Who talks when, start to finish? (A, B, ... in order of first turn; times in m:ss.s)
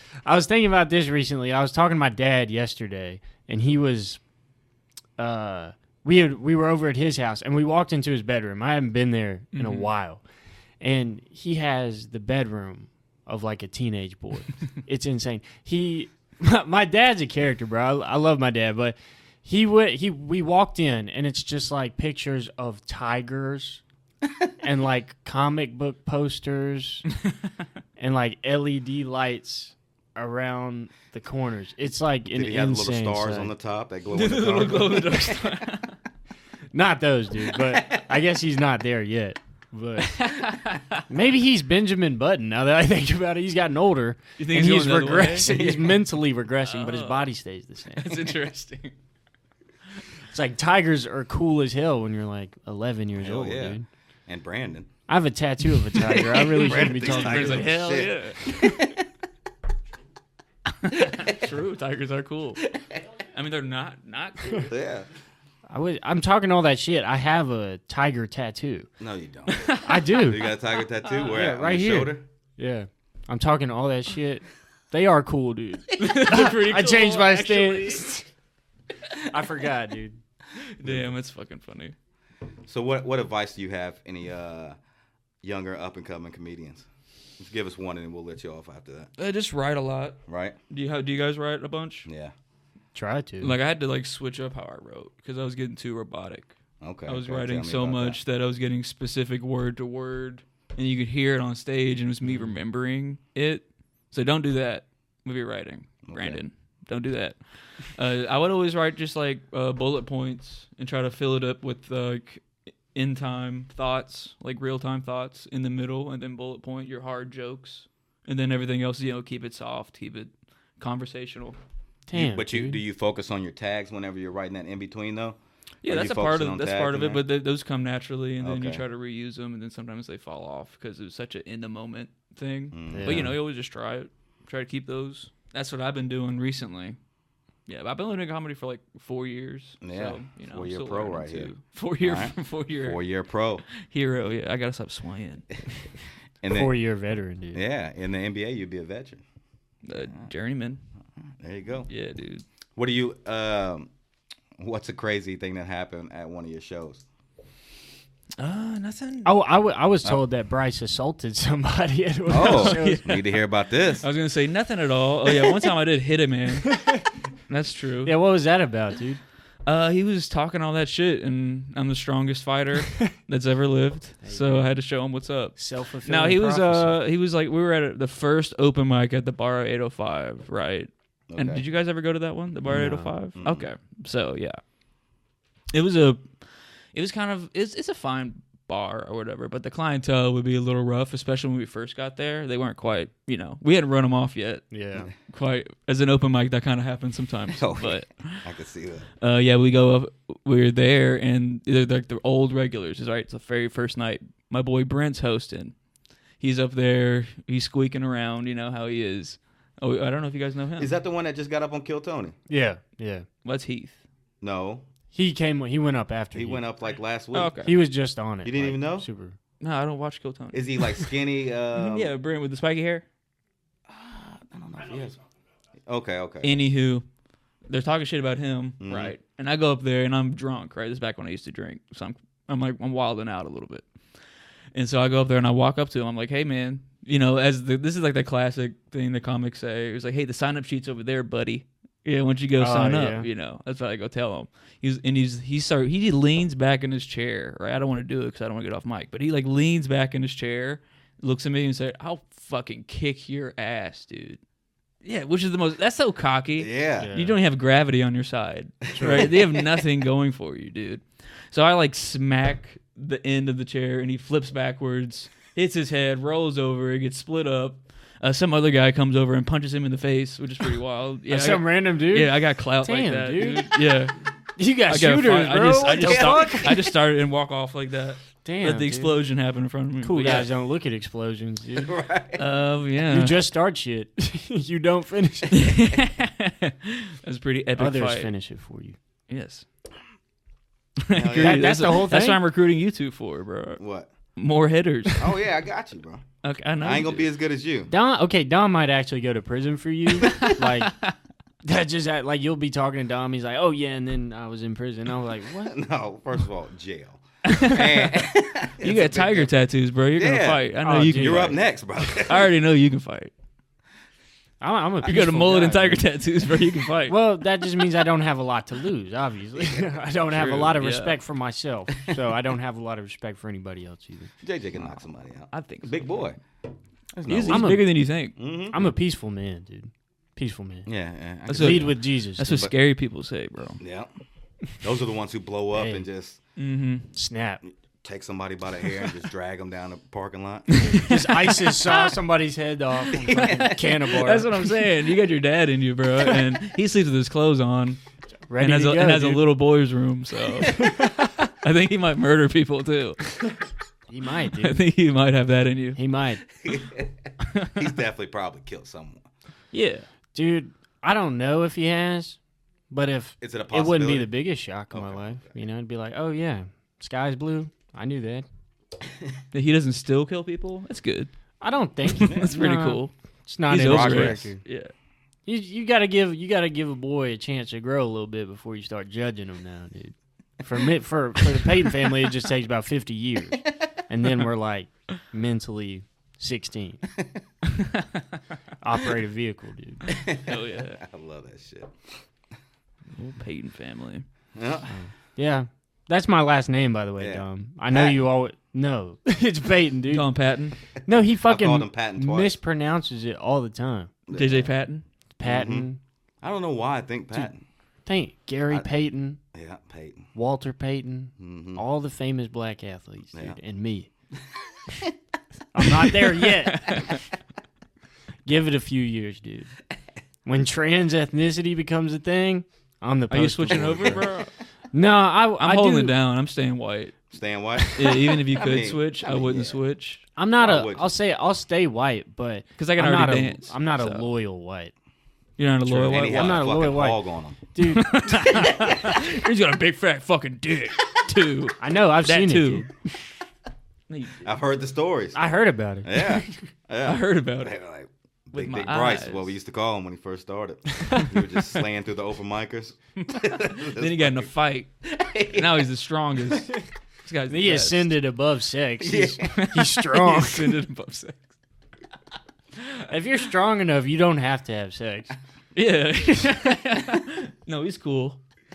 0:00.2-0:04.2 A
0:05.2-0:10.2 A
0:09.5-0:09.9 B
0:10.8-0:23.8 A
0:24.6-0:27.0 A
0:28.0-0:33.5 A
0:32.3-0:35.7 C
0:34.1-0:36.0 B
0:36.7-0:40.1 A
0:37.6-0:38.1 C
0:40.0-0:41.0 B
0:41.1-0:48.3 A
0:44.4-0:45.5 B
0:45.4-0:46.0 C
0:46.6-0:47.3 B
0:48.0-0:48.9 B
0:50.3-0:53.9 A
0:53.2-0:54.9 C
0:55.1-0:57.8 A
0:56.1-0:59.0 C
0:56.5-0:58.8 B
1:00.8-1:02.6 B
1:02.7-1:03.0 C
1:03.3-1:04.7 B
1:04.7-1:05.1 C
1:05.7-1:08.9 A
1:09.0-1:12.2 C
1:09.5-1:10.3 B
1:09.8-1:10.5 A
1:11.2-1:18.3 A
1:16.0-1:18.0 B
1:19.3-1:20.2 A
1:20.6-1:21.9 B
1:20.8-1:21.1 C
1:22.7-1:24.8 C
1:25.4-1:26.9 C
1:27.4-1:29.1 C
1:29.2-1:30.2 B
1:30.3-1:30.6 C
1:30.7-1:32.1 B
1:32.0-1:32.3 C
1:33.0-1:33.6 A
1:33.4-2:01.6 B
1:36.8-1:38.2 C
1:42.2-1:42.6 A
1:46.0-1:46.4 C
2:02.1-2:02.8 A
2:02.1-2:07.2 C
2:05.8-2:17.0 B
2:08.4-2:08.8 C
2:12.7-2:13.3 C
2:12.9-2:13.4 A
2:17.7-2:23.0 B
2:19.8-2:23.6 C
2:23.8-2:25.6 B
2:26.4-2:26.7 C
2:26.5-2:27.6 A
2:27.5-2:29.2 C
2:29.8-2:30.8 B
2:31.4-2:31.9 C
2:31.9-2:32.4 B
2:32.8-2:33.9 C
2:34.6-2:37.0 C
2:38.4-2:39.3 B
2:39.2-2:43.0 A
2:42.3-2:44.0 C
2:42.3-2:43.4 B
2:43.9-2:46.8 B
2:46.7-2:47.0 A
2:47.5-2:48.1 B
2:48.0-2:49.2 A
2:49.6-3:04.6 B
2:54.2-2:54.7 A
2:55.6-2:57.0 A
3:01.3-3:01.6 C
3:02.6-3:03.1 A
3:03.4-3:03.7 C
3:05.7-3:06.4 B
3:06.9-3:14.7 B
3:14.7-3:15.1 A
3:15.3-3:18.4 B
3:17.5-3:19.1 C
3:19.2-3:25.7 B
3:26.4-3:30.9 B
3:30.8-3:32.3 C
3:32.5-3:33.3 A
3:33.4-3:34.0 B
3:34.4-3:34.9 C
3:35.1-3:36.6 A
3:36.3-3:37.7 C
3:37.3-3:37.7 B
3:37.6-3:39.4 A
3:38.4-3:39.1 C
3:39.6-3:41.1 B
3:40.5-3:42.1 C
3:41.7-3:43.0 B
3:43.9-3:45.2 C
3:45.9-3:46.6 C
3:46.4-3:47.0 B
3:47.7-3:53.9 B
3:48.8-3:49.1 C
3:54.7-4:14.4 B
4:02.6-4:03.3 A
4:15.0-4:34.1 B
4:16.6-4:17.1 C
4:17.0-4:17.4 A
4:19.0-4:19.3 A
4:19.0-4:19.6 C
4:31.3-4:33.7 A
4:34.6-4:36.8 A
4:34.9-4:40.5 B
4:36.0-4:36.9 C
4:38.4-4:39.2 A
4:40.0-4:41.9 A
4:41.8-4:42.4 C
4:42.4-4:43.4 B
4:43.1-4:45.8 A
4:45.5-4:48.3 B
4:47.8-4:49.0 A
4:49.3-4:49.7 B
4:51.0-4:53.8 B
4:51.1-4:52.0 C
4:51.4-4:52.4 A
4:53.8-4:54.1 C
4:54.4-4:55.3 B
4:55.1-4:56.2 C
4:56.4-4:57.3 B
4:56.8-4:57.9 C
4:57.9-5:01.0 A
5:00.2-5:01.1 B
5:01.6-5:05.7 A
5:05.6-5:09.6 C
5:07.4-5:08.1 B
5:08.8-5:13.3 B
5:10.1-5:12.5 C
5:10.8-5:11.6 A
5:14.6-5:16.0 A
5:15.0-5:17.2 B
5:17.1-5:24.3 A
5:20.3-5:21.2 B
5:24.4-5:26.4 C
5:25.5-5:26.1 B
5:27.1-5:27.8 C
5:27.3-5:28.4 B
5:27.5-5:28.0 A
5:28.4-5:28.8 C
5:28.7-5:30.9 A
5:30.9-5:32.7 C
5:31.5-5:33.8 B
5:31.5-5:32.6 A
5:33.8-5:34.1 C
5:34.8-5:36.4 C
5:35.7-5:36.0 A
5:36.6-5:37.1 B
5:37.1-5:37.6 A
5:37.7-5:40.8 C
5:40.8-5:42.1 B
5:40.9-5:44.5 A
5:43.1-5:43.9 C
5:43.3-5:48.0 B
5:48.5-5:49.5 A
5:48.6-5:53.3 B
5:50.8-5:51.3 A
5:54.1-5:54.8 A
5:54.6-5:56.0 B
5:56.0-5:56.4 A
5:56.6-5:57.1 C
5:57.7-5:59.3 C
5:59.7-6:00.1 B
6:00.3-6:02.4 A
6:02.9-6:08.4 A
6:03.4-6:04.3 C
6:04.9-6:05.5 C
6:09.5-6:11.3 B
6:11.6-6:14.6 A
6:12.1-6:13.1 B
6:12.2-6:12.6 C
6:13.7-6:14.9 B
6:13.7-6:14.5 C
6:15.4-6:27.0 A
6:28.8-6:30.0 A
6:30.1-6:32.0 C
6:30.4-6:31.0 B
6:33.1-6:34.3 B
6:34.6-6:34.9 C
6:34.9-6:40.3 A
6:37.2-6:38.2 C
6:40.1-6:40.8 B
6:41.0-6:44.1 A
6:41.1-6:42.6 C
6:44.3-6:44.7 C
6:44.3-6:45.0 B
6:45.4-6:46.0 A
6:45.4-6:45.9 C
6:46.4-6:47.6 C
6:48.0-6:49.4 A
6:49.5-6:50.3 C
6:50.3-6:54.1 A
6:51.4-6:51.8 C
6:55.7-6:57.1 A
6:56.6-6:57.2 B
6:58.4-6:59.7 A
7:00.4-7:04.3 A
7:03.3-7:04.5 B
7:03.7-7:04.3 C
7:04.9-7:06.2 A
7:05.6-7:07.2 B
7:07.3-7:09.8 C
7:08.0-7:10.2 B
7:10.4-7:14.9 A
7:10.6-7:11.1 C
7:12.8-7:14.3 B
7:15.6-7:16.7 B
7:15.8-7:17.6 C
7:16.2-7:18.4 A
7:17.9-7:22.9 B
7:18.5-7:19.2 C
7:21.8-7:22.9 A
7:24.1-7:24.5 B
7:24.4-7:25.4 C
7:25.3-7:26.6 A
7:26.0-7:34.5 C
7:27.0-7:27.7 B
7:28.5-7:29.5 B
7:33.2-7:35.0 B
7:35.0-7:35.9 C
7:35.5-7:38.1 B
7:37.5-7:40.8 A
7:39.0-7:39.7 C
7:39.5-7:41.4 B
7:43.0-7:45.3 A
7:45.7-7:48.4 B